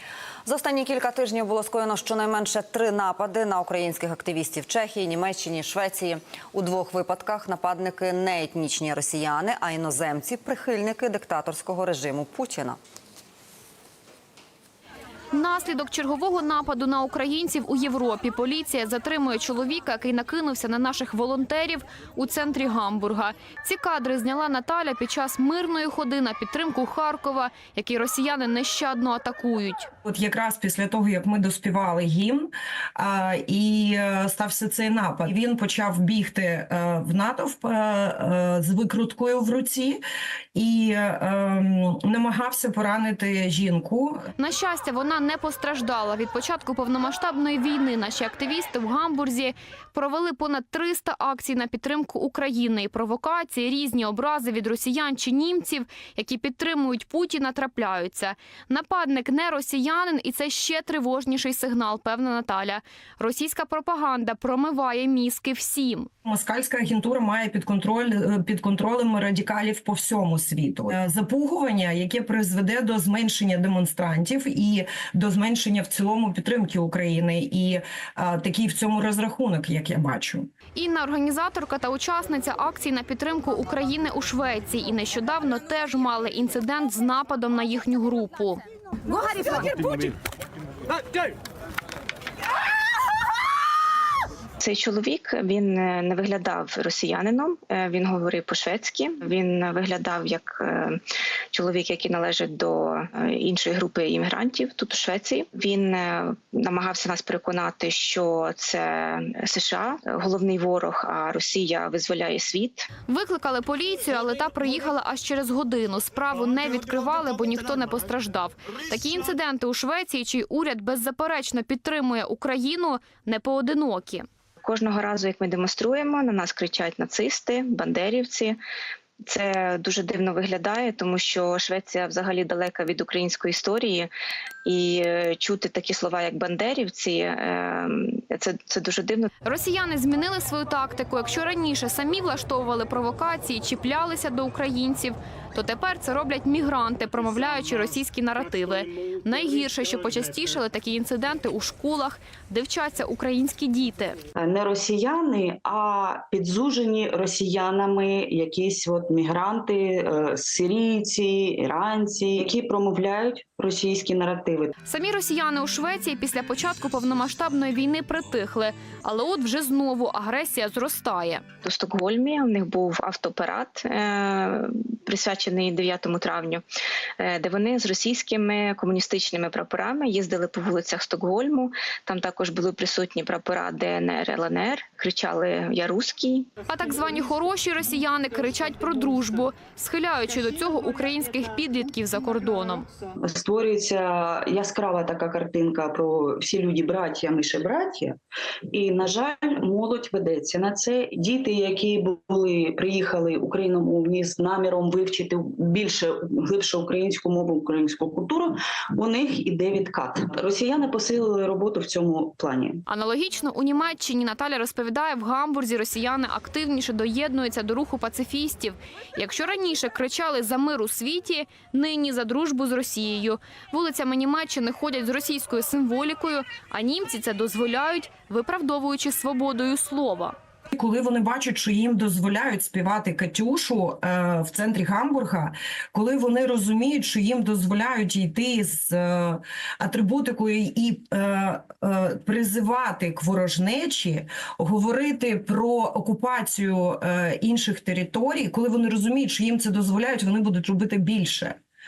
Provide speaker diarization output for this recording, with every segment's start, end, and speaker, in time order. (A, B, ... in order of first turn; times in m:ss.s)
0:00.4-0:12.8 A
0:15.3-0:29.9 B
0:30.0-0:40.0 C
0:40.5-0:44.3 C
0:44.4-1:06.1 B
1:06.2-1:20.5 C
1:20.7-1:28.6 B
1:34.6-1:41.0 D
1:41.5-1:52.9 D
1:53.1-2:04.2 B
2:04.6-2:08.6 D
2:09.2-2:14.1 D
2:14.6-2:19.3 D
2:19.4-2:34.2 B
2:34.4-2:44.7 E
2:44.8-2:51.4 B
2:51.6-2:56.6 D
2:57.2-3:06.5 D
3:06.7-3:12.8 B
3:13.2-3:18.2 E
3:18.7-3:32.8 E
3:32.9-3:50.3 B
3:50.7-4:11.6 C